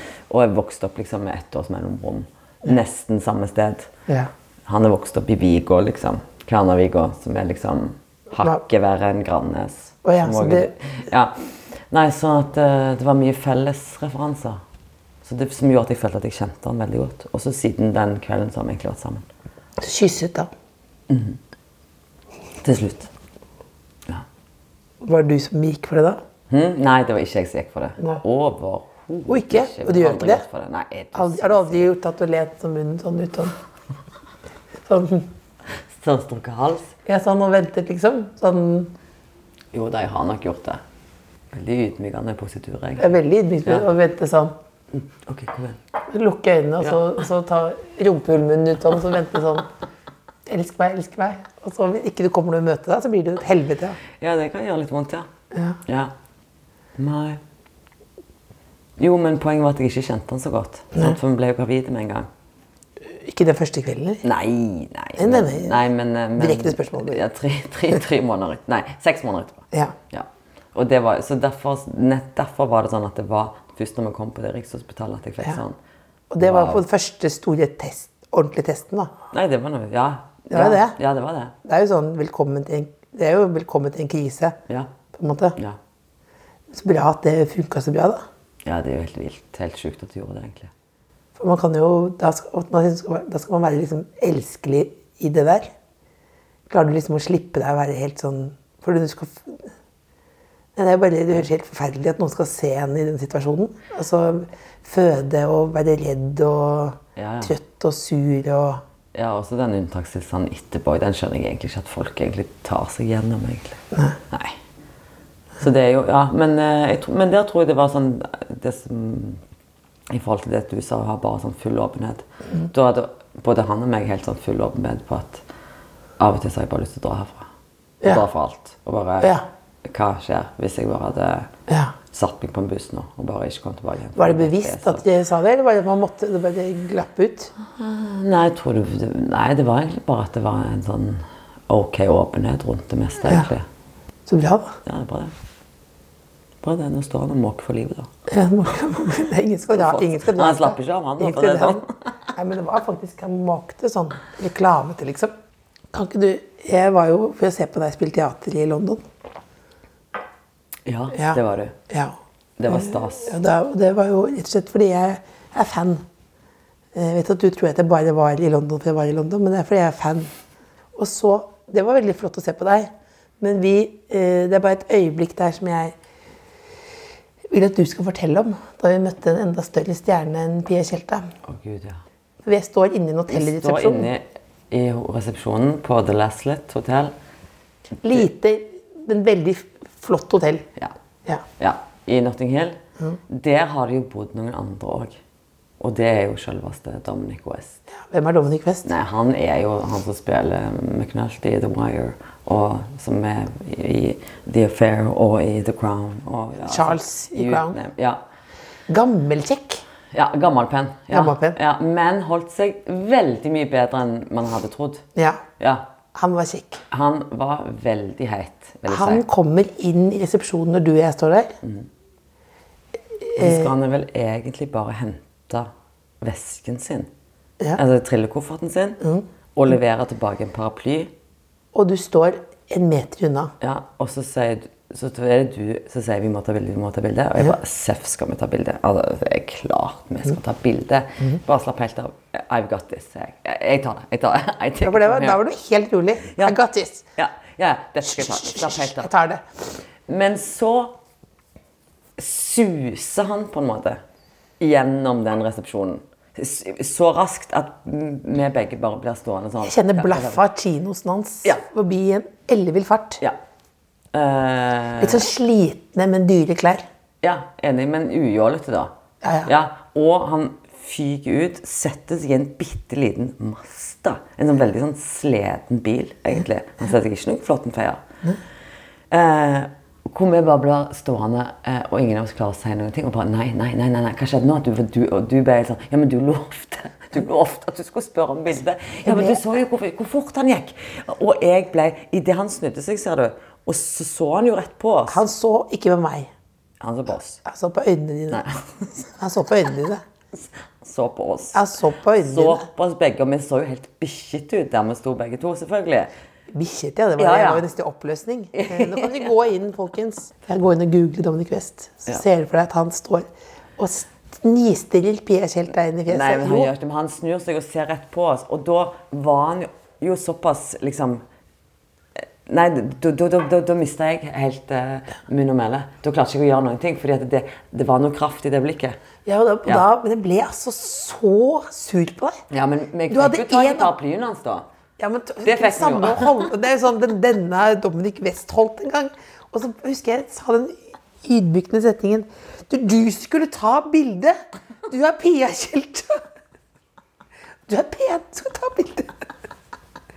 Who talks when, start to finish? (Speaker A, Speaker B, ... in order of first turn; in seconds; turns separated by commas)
Speaker A: 0.3-3.9, Speaker A: 4.7-14.6, Speaker B: 10.0-10.7, Speaker A: 15.2-19.2, Speaker B: 19.8-20.5, Speaker A: 21.1-21.4, Speaker A: 22.6-23.1, Speaker B: 25.0-26.2, Speaker A: 26.5-31.9, Speaker B: 29.3-30.4, Speaker B: 31.1-33.5, Speaker B: 34.9-35.3, Speaker A: 36.0-36.9, Speaker B: 37.0-38.9, Speaker A: 39.7-40.8, Speaker A: 41.5-43.1, Speaker B: 43.0-44.5, Speaker A: 44.9-45.8, Speaker B: 46.1-49.7, Speaker B: 50.5-54.0, Speaker A: 54.2-55.3, Speaker B: 55.5-55.8, Speaker A: 55.9-56.1, Speaker A: 57.0-57.4, Speaker A: 59.0-62.3, Speaker B: 63.0-64.2, Speaker A: 64.2-75.8, Speaker B: 65.2-65.8, Speaker B: 66.3-67.2, Speaker B: 76.3-79.1, Speaker A: 76.4-76.8, Speaker A: 79.3-81.5, Speaker B: 80.5-81.0, Speaker B: 81.6-84.6, Speaker B: 85.1-85.6, Speaker B: 86.7-88.2, Speaker A: 88.6-90.7, Speaker B: 91.3-95.7, Speaker B: 96.7-99.7, Speaker B: 100.7-108.8, Speaker A: 107.2-107.5, Speaker A: 109.1-114.6, Speaker A: 115.6-119.4, Speaker A: 120.1-125.4, Speaker A: 126.2-127.5, Speaker A: 128.0-129.3, Speaker B: 129.2-129.4, Speaker A: 129.8-131.5, Speaker B: 131.7-131.9, Speaker A: 132.1-135.0, Speaker B: 134.2-137.5, Speaker A: 137.6-143.7, Speaker B: 144.3-144.8, Speaker A: 144.8-145.3, Speaker A: 146.6-148.1, Speaker B: 148.3-155.3, Speaker A: 149.7-152.1, Speaker B: 155.9-159.1, Speaker A: 160.8-161.8, Speaker B: 161.1-162.2, Speaker A: 162.6-163.3, Speaker B: 162.7-166.0, Speaker B: 166.9-170.3, Speaker B: 170.9-175.9, Speaker B: 177.5-181.3, Speaker A: 181.4-182.0, Speaker B: 182.4-184.1, Speaker A: 183.3-187.1, Speaker B: 188.0-190.7, Speaker A: 191.6-195.2, Speaker A: 195.8-197.8, Speaker B: 197.9-198.9, Speaker A: 198.8-208.2, Speaker B: 206.7-207.8, Speaker B: 208.9-209.8, Speaker A: 210.1-215.0, Speaker B: 211.1-211.6, Speaker B: 215.2-215.4, Speaker A: 215.6-215.9, Speaker B: 216.1-216.8, Speaker A: 216.9-219.2, Speaker B: 218.9-221.5, Speaker A: 221.6-221.9, Speaker B: 223.2-223.7, Speaker A: 223.3-227.1, Speaker A: 227.7-229.0, Speaker A: 229.5-231.1, Speaker B: 231.7-233.5, Speaker A: 233.6-245.4, Speaker B: 244.8-247.1, Speaker A: 246.3-246.6, Speaker A: 247.2-249.1, Speaker B: 248.1-249.4, Speaker A: 250.1-250.9, Speaker A: 252.2-254.0, Speaker A: 254.6-260.4, Speaker B: 259.6-263.2, Speaker A: 264.1-265.2, Speaker B: 265.0-266.9, Speaker A: 267.2-268.9, Speaker B: 269.2-269.5, Speaker A: 269.4-278.0, Speaker A: 279.1-295.2, Speaker B: 289.0-289.4, Speaker B: 295.1-296.3, Speaker A: 296.8-297.4, Speaker B: 297.4-298.4, Speaker A: 298.3-299.1, Speaker B: 299.1-300.0, Speaker A: 300.4-301.6, Speaker B: 301.5-302.6, Speaker A: 302.2-306.1, Speaker B: 306.5-316.7, Speaker A: 307.2-307.6, Speaker A: 308.5-309.3, Speaker A: 316.1-321.2, Speaker A: 322.2-328.9, Speaker B: 329.2-332.4, Speaker A: 332.5-334.6, Speaker B: 333.1-333.9, Speaker B: 335.0-346.2, Speaker A: 335.4-336.5, Speaker B: 347.7-349.2